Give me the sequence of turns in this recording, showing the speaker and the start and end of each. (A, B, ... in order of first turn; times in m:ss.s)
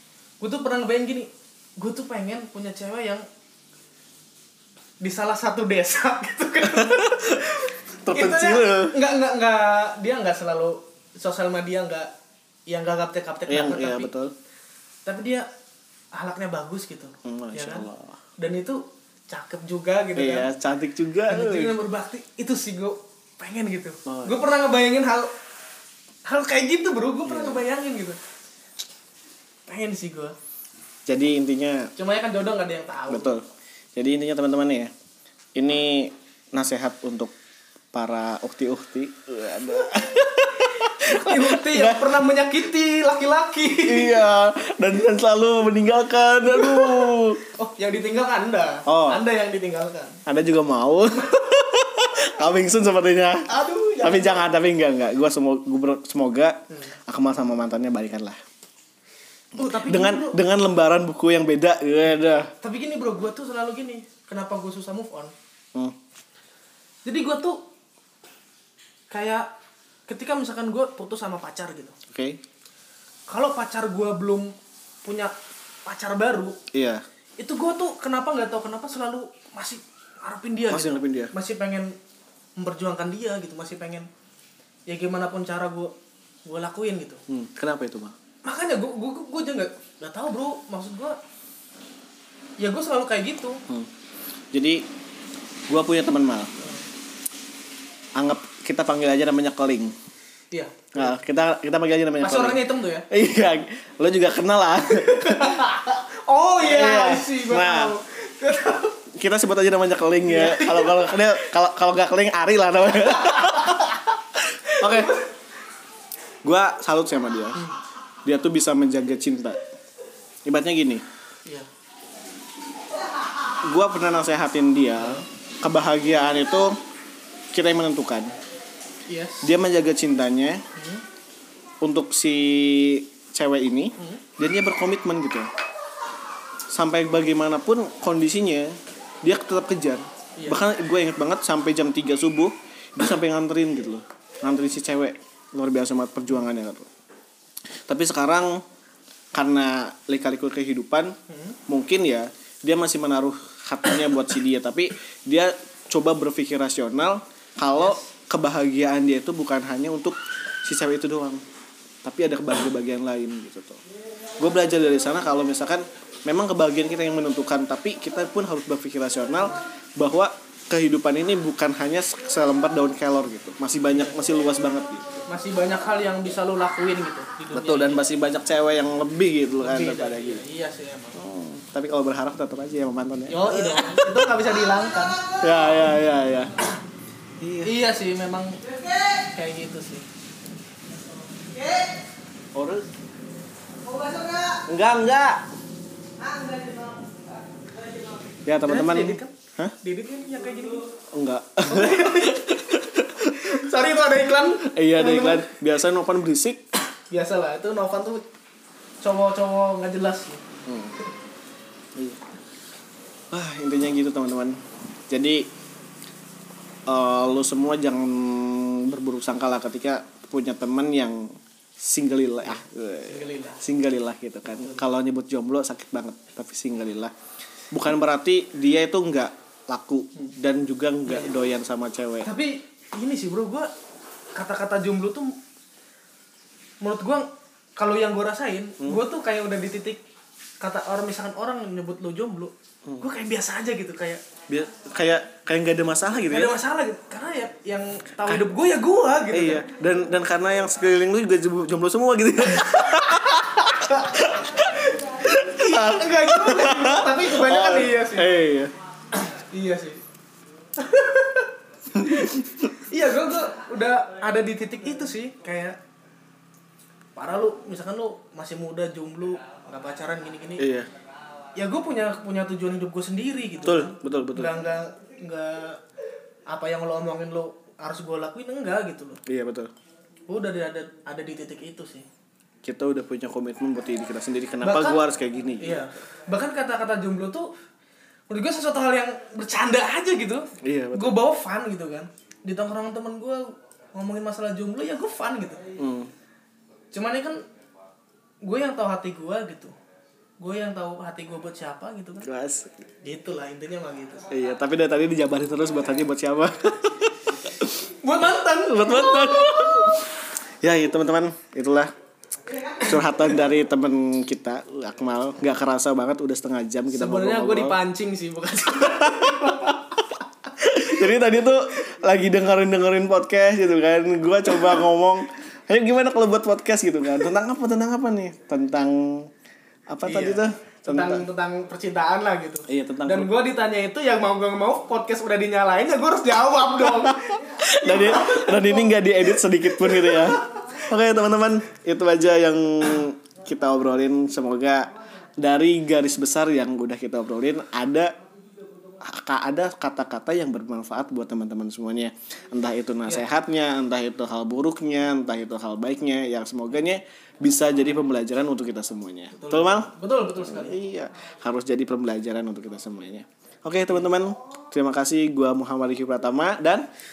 0:00.4-0:03.2 A
0:05.0-0:12.1 A
0:06.6-0:09.0 B
0:12.7-0:14.1 A
0:13.5-0:14.3 B
0:15.1-0:15.5 A
0:16.1-0:17.9 A
0:17.2-0:18.2 B
0:18.4-0:20.5 A
0:20.2-0:21.7 B
0:21.3-0:25.3 A
0:24.1-0:24.4 B
0:26.3-0:28.2 A
0:27.3-0:27.6 B
0:29.7-0:30.4 A
0:31.1-0:31.9 B
0:32.0-0:33.4 A
0:33.1-0:33.4 B
0:34.0-0:34.9 B
0:35.6-0:37.3 B
0:37.9-0:42.1 B
0:41.0-0:44.2 A
0:43.8-0:47.4 B
0:47.6-0:50.2 A
0:48.9-0:49.2 B
0:50.3-0:53.5 B
0:53.5-0:54.5 A
0:54.0-0:58.4 B
0:59.6-1:00.4 A
0:59.6-1:02.5 B
1:02.6-1:05.3 A
1:07.0-1:07.6 A
1:09.1-1:09.5 A
1:10.1-1:12.0 A
1:12.1-1:12.4 B
1:13.3-1:14.5 A
1:15.0-1:15.3 A
1:15.9-1:16.6 A
1:16.7-1:17.0 B
1:17.4-1:21.9 A
1:20.7-1:21.3 B
1:22.6-1:24.1 A
1:24.9-1:25.9 A
1:26.4-1:27.2 A
1:27.3-1:28.2 B
1:28.4-1:31.2 A
1:32.6-1:33.6 A
1:34.5-1:34.9 B
1:35.7-1:36.5 B
1:38.2-1:40.0 B
1:40.5-1:41.1 A
1:40.9-1:45.8 B
1:42.2-1:43.1 A
1:45.0-1:49.0 A
1:46.6-1:48.0 B
1:49.1-1:55.2 B
1:50.2-1:51.1 A
1:53.2-1:53.9 A
1:54.6-1:55.3 A
1:56.4-1:57.6 B
1:58.2-1:59.6 B
2:00.4-2:01.0 B
2:03.6-2:06.8 B
2:05.0-2:05.2 A
2:07.5-2:08.4 B
2:09.1-2:09.5 A
2:09.4-2:10.6 B
2:10.8-2:11.0 A
2:11.8-2:15.5 B
2:14.0-2:14.2 A
2:16.7-2:26.9 B
2:20.4-2:20.6 A
2:27.9-2:28.6 B
2:29.3-2:31.2 B
2:31.3-2:31.6 A
2:31.7-2:41.4 B
2:37.8-2:38.0 A
2:42.0-2:43.8 B
2:44.4-2:55.2 B
2:53.9-2:54.2 A
2:55.3-2:58.0 A
2:57.5-3:00.4 B
2:59.6-3:01.3 A
3:01.2-3:04.2 B
3:03.3-3:05.2 A
3:04.6-3:06.0 C
3:05.4-3:06.6 B
3:07.4-3:07.7 B
3:07.6-3:08.6 A
3:08.6-3:09.3 C
3:09.4-3:10.1 A
3:11.4-3:12.0 C
3:12.5-3:12.9 B
3:13.8-3:14.6 C
3:14.7-3:15.4 B
3:16.2-3:18.4 C
3:18.5-3:19.8 B
3:18.6-3:20.8 A
3:21.1-3:23.6 B
3:21.6-3:25.5 A
3:24.6-3:26.6 B
3:27.1-3:28.2 A
3:29.0-3:30.4 A
3:30.7-3:31.0 B
3:32.0-3:32.2 B
3:33.3-3:35.5 B
3:36.9-3:47.1 B
3:42.5-3:43.6 A
3:44.5-3:44.8 A
3:47.7-3:52.3 B
3:52.2-3:53.7 A
3:54.4-3:55.4 A
3:56.8-4:00.0 A
4:00.6-4:04.2 A
4:04.5-4:06.6 B
4:06.3-4:09.7 A
4:09.3-4:18.7 B
4:13.9-4:14.2 A
4:15.3-4:18.4 A
4:19.1-4:20.0 A
4:20.8-4:25.8 A
4:22.0-4:22.7 B
4:27.2-4:30.7 A
4:30.6-4:30.9 B
4:31.6-4:35.8 A
4:33.6-4:34.6 B
4:36.5-4:39.2 A
4:39.3-4:39.7 B
4:40.3-4:42.1 A
4:42.6-4:45.8 B
4:44.6-4:45.0 A
4:45.6-4:47.5 A
4:48.3-4:55.7 A
4:50.6-4:51.2 B
4:55.8-4:56.1 B
4:56.9-4:57.4 A
4:58.4-4:59.7 A
5:00.4-5:02.3 A
5:02.2-5:02.8 B
5:03.0-5:04.3 A
5:04.3-5:07.8 B
5:08.0-5:09.8 A
5:08.6-5:10.1 B
5:10.6-5:11.9 B
5:12.8-5:17.8 B
5:16.9-5:19.9 A
5:18.8-5:20.0 B
5:20.6-5:29.3 B
5:29.9-5:31.3 B
5:30.1-5:38.9 A
5:32.7-5:33.3 B
5:36.9-5:48.1 B
5:39.9-5:40.2 A
5:49.0-6:06.9 B
5:59.3-6:00.8 A